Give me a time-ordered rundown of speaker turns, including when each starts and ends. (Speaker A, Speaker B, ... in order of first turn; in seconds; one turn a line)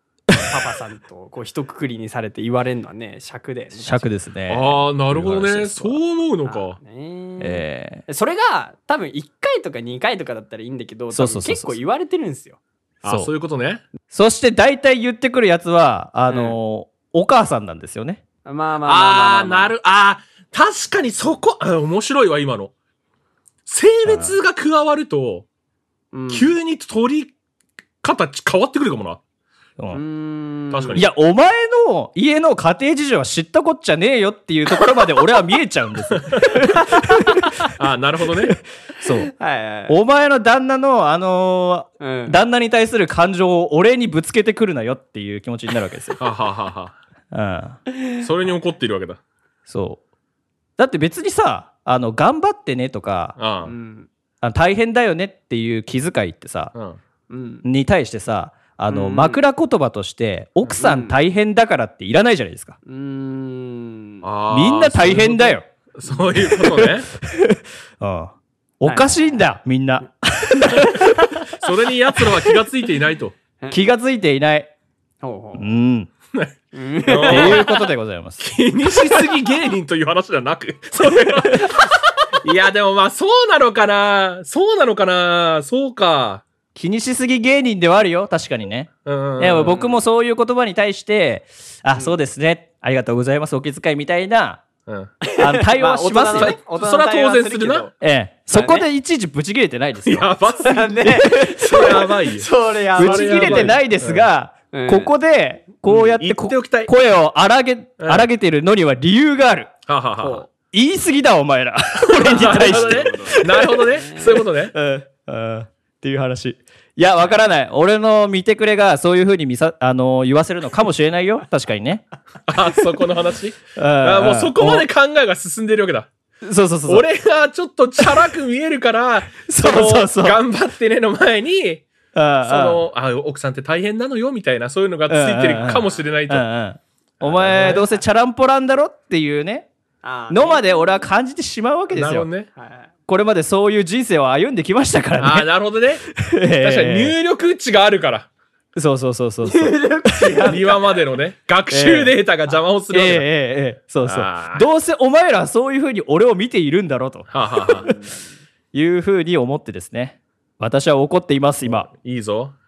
Speaker A: 0.3-4.1
Speaker B: 3.8-6.0
Speaker C: 4.5-6.8
Speaker A: 6.5-12.6
Speaker B: 7.4-8.1
Speaker B: 11.1-11.8
Speaker C: 13.0-13.8
Speaker B: 13.0-13.3
Speaker B: 14.1-18.2
Speaker A: 16.3-16.6
Speaker A: 18.4-19.7
Speaker C: 18.8-22.7
Speaker C: 23.6-25.4
Speaker B: 24.0-24.4
Speaker A: 26.1-26.5
Speaker C: 26.3-27.3
Speaker C: 28.0-29.2
Speaker A: 29.9-31.0
Speaker C: 30.7-31.1
Speaker B: 30.9-37.6
Speaker C: 36.1-36.5
Speaker C: 37.7-38.6
Speaker B: 38.5-39.3
Speaker A: 39.3-40.0
Speaker B: 39.9-46.2
Speaker A: 42.0-42.4
Speaker C: 46.2-46.9
Speaker B: 47.3-47.8
Speaker C: 48.2-49.2
Speaker B: 49.7-50.0
Speaker B: 50.8-53.4
Speaker C: 53.4-53.7
Speaker A: 53.6-54.1
Speaker B: 54.4-56.7
Speaker C: 56.7-57.0
Speaker A: 57.3-57.6
Speaker B: 57.6-62.8
Speaker A: 58.9-59.4
Speaker A: 60.7-61.2
Speaker A: 62.9-64.2
Speaker C: 64.2-67.1
Speaker B: 64.5-65.6
Speaker B: 66.3-71.3
Speaker A: 68.8-69.2
Speaker C: 71.5-73.3
Speaker B: 73.7-74.7
Speaker A: 75.2-75.7
Speaker B: 75.6-76.1
Speaker A: 76.7-77.8
Speaker C: 77.0-77.8
Speaker B: 77.2-78.4
Speaker C: 78.4-86.4
Speaker B: 86.7-94.6
Speaker C: 89.0-89.7
Speaker A: 89.5-90.0
Speaker C: 94.9-95.1
Speaker A: 95.2-97.9
Speaker B: 95.4-96.5
Speaker C: 96.3-97.9
Speaker B: 98.0-100.3
Speaker A: 98.5-98.8
Speaker C: 100.0-104.2
Speaker A: 100.6-103.8
Speaker B: 101.0-101.6
Speaker B: 103.0-109.7
Speaker A: 104.7-105.1
Speaker C: 105.9-106.9
Speaker C: 108.0-108.3
Speaker C: 109.9-110.4
Speaker A: 110.2-110.5
Speaker B: 110.7-114.0
Speaker A: 112.1-114.4
Speaker C: 112.2-114.7
Speaker B: 114.7-122.1
Speaker C: 122.5-126.1
Speaker B: 123.8-124.9
Speaker B: 126.4-127.0
Speaker C: 126.9-131.8
Speaker B: 129.5-130.4
Speaker B: 132.1-132.8
Speaker C: 132.4-136.4
Speaker B: 135.1-139.7
Speaker C: 137.2-137.9
Speaker A: 137.5-137.9
Speaker A: 140.0-140.8
Speaker B: 140.3-142.3
Speaker C: 141.9-142.5
Speaker A: 142.6-142.9
Speaker B: 143.1-145.5
Speaker C: 145.2-148.3
Speaker B: 146.1-147.1
Speaker B: 148.7-150.6
Speaker A: 149.4-151.0
Speaker C: 150.4-153.3
Speaker B: 151.7-152.1
Speaker B: 152.9-157.8
Speaker C: 154.0-154.7
Speaker C: 157.3-157.9
Speaker A: 157.7-158.2
Speaker B: 158.7-161.9
Speaker C: 161.9-162.5